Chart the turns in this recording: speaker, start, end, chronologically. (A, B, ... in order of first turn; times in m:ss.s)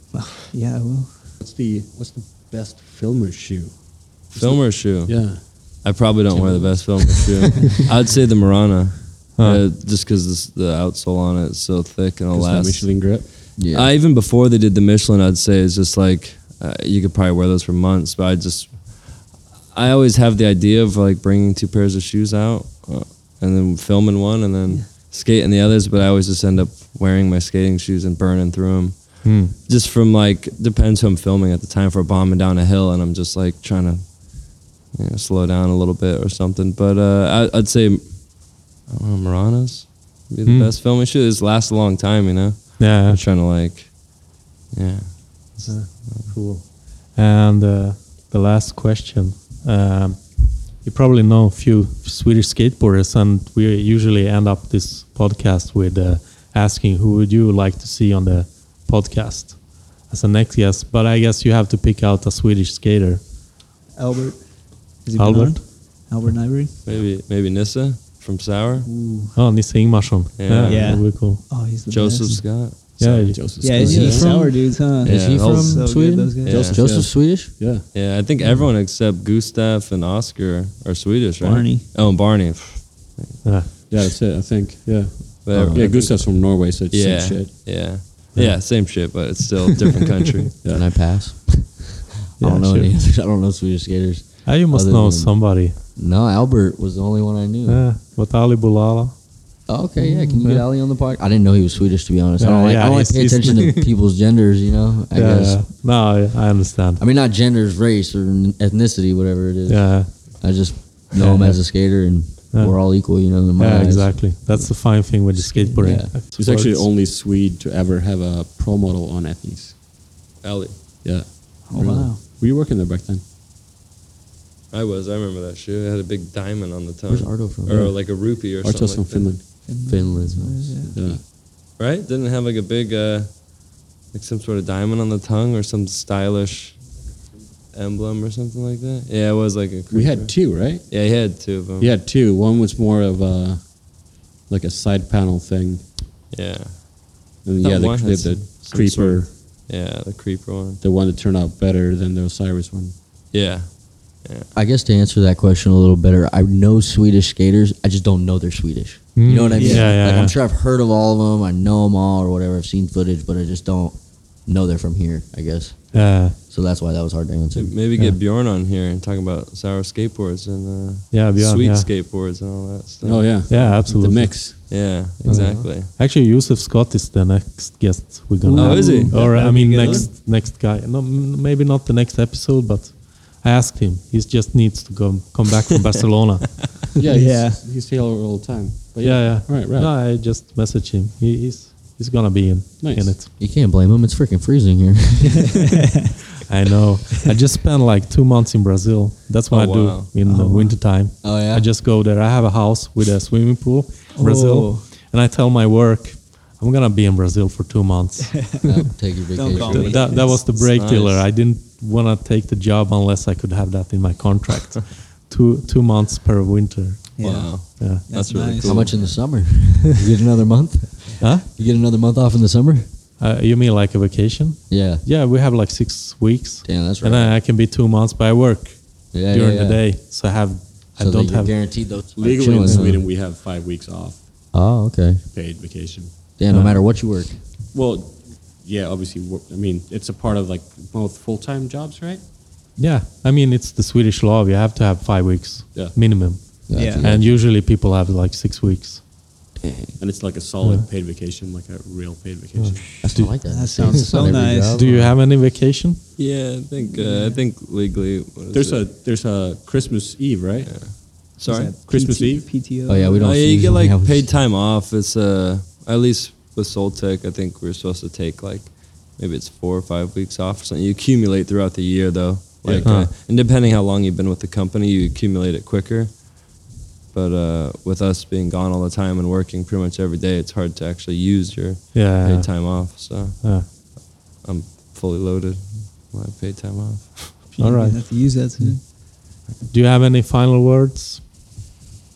0:00.1-0:01.2 A
0:01.4-0:07.8 B
0:04.4-0:46.3 C
0:09.4-0:09.6 D
0:12.3-0:13.4 B
0:13.6-0:13.9 E
0:29.2-0:29.5 D
0:40.5-0:40.7 D
0:42.8-0:43.2 D
0:45.7-1:03.2 D
1:04.0-1:06.7 A
1:05.2-1:06.1 D
1:06.8-1:08.9 C
1:08.8-1:09.3 A
1:09.3-1:11.4 D
1:10.4-1:11.2 C
1:10.6-1:12.5 A
1:11.9-1:13.2 C
1:13.0-1:13.9 D
1:13.0-1:14.5 B
1:13.6-1:16.7 A
1:13.8-1:17.6 E
1:14.0-1:14.3 C
1:15.0-1:15.9 C
1:16.4-1:16.8 C
1:16.5-1:17.9 B
1:17.9-1:23.4 C
1:21.4-1:21.8 A
1:23.4-1:23.7 D
1:23.9-1:27.5 B
1:25.4-1:30.5 C
1:25.5-1:25.9 E
1:28.4-1:29.1 D
1:30.6-1:30.9 B
1:30.7-1:37.8 E
1:32.4-1:32.9 D
1:34.4-1:35.8 D
1:37.7-1:39.1 D
1:39.7-1:45.7 E
1:40.4-1:40.6 D
1:42.4-1:43.9 D
1:45.1-1:47.0 D
1:47.0-1:54.7 E
1:49.7-1:50.4 D
1:51.2-1:51.8 D
1:52.5-1:56.9 D
1:55.4-1:56.1 E
1:56.3-1:59.8 B
2:00.4-2:00.8 C
2:01.0-2:03.2 B
2:01.7-2:02.2 A
2:04.7-2:09.4 C
2:07.1-2:07.9 E
2:07.7-2:09.6 B
2:09.7-2:10.9 A
2:09.8-2:11.2 E
2:10.9-2:11.2 B
2:11.8-2:16.9 C
2:17.7-2:21.9 C
2:19.9-2:21.2 B
2:21.8-2:25.9 B
2:26.3-2:30.8 C
2:27.4-2:29.3 B
2:30.8-2:33.0 B
2:33.3-2:34.5 C
2:34.5-2:47.8 E
2:39.2-2:40.4 D
2:39.6-2:39.9 A
2:45.9-2:46.4 D
2:47.6-2:53.6 C
2:51.1-2:51.9 D
2:53.0-2:54.8 B
2:53.5-2:54.7 D
2:54.7-2:55.9 C
2:55.2-2:55.7 E
2:55.3-3:06.7 D
2:58.5-3:00.1 A
2:58.6-2:59.4 C
2:59.1-3:00.0 B
3:07.0-3:10.0 B
3:07.1-3:07.6 A
3:09.0-3:13.3 D
3:12.8-3:13.2 B
3:13.4-3:15.6 E
3:16.5-3:28.8 D
3:19.5-3:20.1 C
3:20.3-3:20.8 A
3:21.2-3:21.7 E
3:24.2-3:24.8 A
3:28.6-3:30.2 E
3:29.4-3:30.6 A
3:29.6-3:37.2 D
3:30.5-3:31.3 C
3:37.2-3:39.0 A
3:37.2-3:39.1 C
3:37.8-3:38.0 D
3:38.6-3:42.9 E
3:41.2-3:41.5 D
3:43.2-3:51.6 D
3:44.7-3:45.0 E
3:46.6-3:47.4 E
3:49.1-3:49.8 E
3:51.0-3:53.1 E
3:52.2-3:54.3 B
3:54.5-3:55.2 E
3:55.3-3:56.1 B
3:56.4-3:57.4 E
3:56.5-3:56.8 D
3:57.7-4:02.2 B
4:02.8-4:09.0 D
4:06.7-4:07.3 E
4:06.7-4:07.1 A
4:09.6-4:10.0 E
4:10.0-4:13.1 B
4:10.6-4:10.9 D
4:12.6-4:16.0 D
4:13.0-4:15.2 E
4:13.5-4:14.9 A
4:16.2-4:18.8 C
4:16.9-4:17.4 A
4:18.5-4:22.6 B
4:20.7-4:21.8 C
4:21.4-4:23.2 A
4:22.8-4:24.4 E
4:23.2-4:36.6 C
4:32.6-4:32.9 B
4:32.8-4:33.1 D
4:37.1-4:47.5 C
4:41.9-4:43.7 D
4:47.5-4:48.8 A
4:47.6-4:49.0 D
4:49.6-4:51.2 D